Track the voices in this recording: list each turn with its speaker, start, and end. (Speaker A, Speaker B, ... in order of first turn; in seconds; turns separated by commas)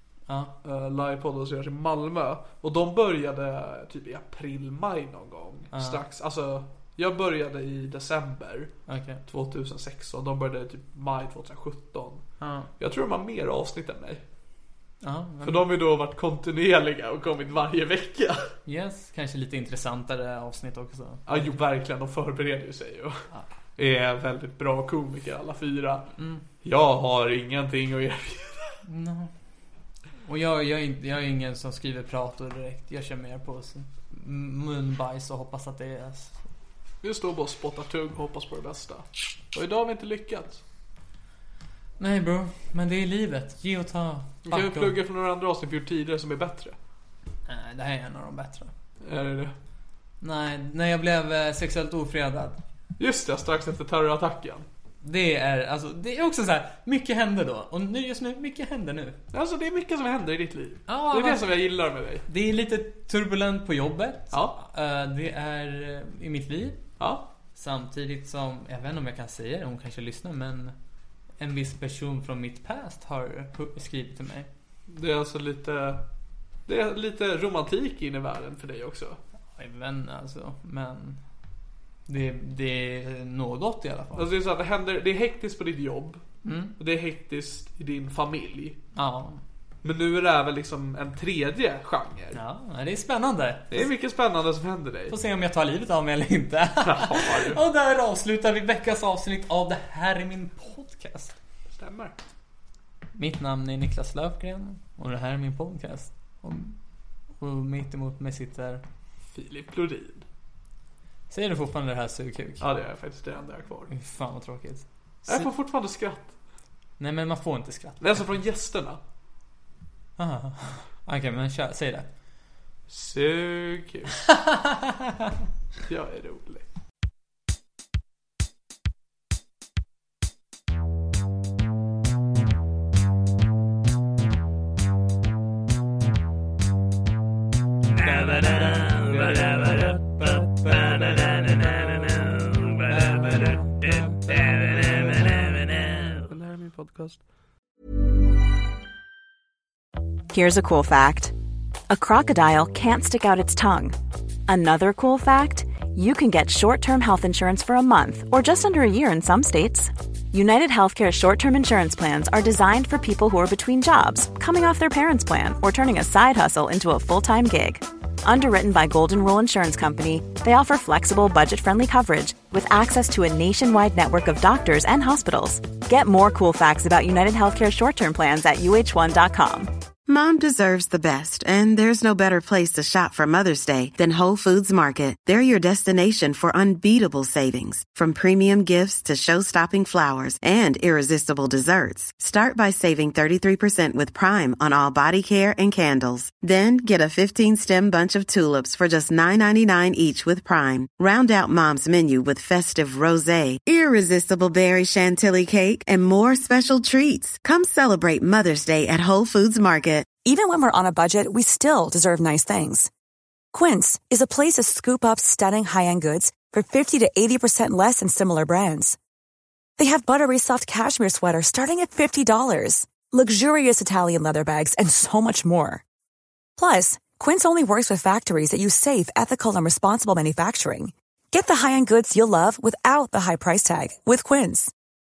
Speaker A: 0.3-0.5, Speaker B: 0.6-8.7, Speaker A: 5.7-6.0, Speaker A: 8.9-9.2, Speaker B: 9.3-12.2, Speaker A: 12.4-12.7, Speaker B: 12.8-14.2, Speaker A: 15.0-15.6, Speaker B: 15.4-18.4, Speaker A: 18.7-21.6, Speaker B: 21.3-26.1, Speaker A: 26.2-26.4, Speaker B: 26.6-28.8, Speaker A: 28.9-29.3, Speaker A: 30.2-36.5, Speaker B: 37.0-40.6, Speaker A: 42.0-45.0, Speaker B: 44.5-46.8, Speaker A: 47.5-48.7, Speaker B: 49.0-49.5, Speaker A: 50.2-52.6, Speaker B: 53.0-54.7, Speaker A: 55.0-59.2, Speaker B: 59.3-62.2, Speaker A: 60.9-61.5, Speaker A: 62.3-66.8, Speaker B: 64.3-64.6, Speaker B: 67.0-67.3, Speaker A: 67.5-70.7, Speaker A: 71.4-74.5, Speaker B: 74.9-76.0, Speaker B: 76.7-79.2, Speaker A: 79.6-81.2, Speaker A: 82.1-84.3, Speaker B: 84.2-86.2, Speaker A: 86.5-86.8, Speaker B: 86.8-88.8, Speaker A: 89.0-89.4, Speaker B: 89.8-92.4, Speaker A: 92.3-93.9, Speaker B: 93.7-95.2, Speaker A: 95.1-101.3, Speaker B: 96.8-97.6, Speaker B: 101.7-102.2, Speaker A: 103.2-106.8, Speaker A: 107.4-108.8, Speaker B: 109.3-110.2, Speaker A: 111.3-112.6, Speaker B: 112.6-113.9, Speaker A: 113.9-115.5, Speaker B: 115.3-116.3, Speaker A: 117.0-118.2, Speaker B: 118.0-119.0, Speaker A: 120.2-122.1, Speaker B: 122.9-124.2, Speaker A: 124.5-124.9, Speaker B: 125.9-126.6, Speaker A: 138.0-141.1, Speaker B: 138.7-142.1, Speaker A: 142.9-143.7, Speaker B: 143.0-145.5, Speaker A: 145.4-146.1, Speaker B: 146.2-147.2, Speaker C: 150.3-151.3, Speaker C: 151.9-179.7, Speaker D: 180.1-210.1, Speaker E: 210.2-212.9, Speaker E: 213.5-219.0, Speaker E: 219.8-225.8, Speaker E: 226.6-234.7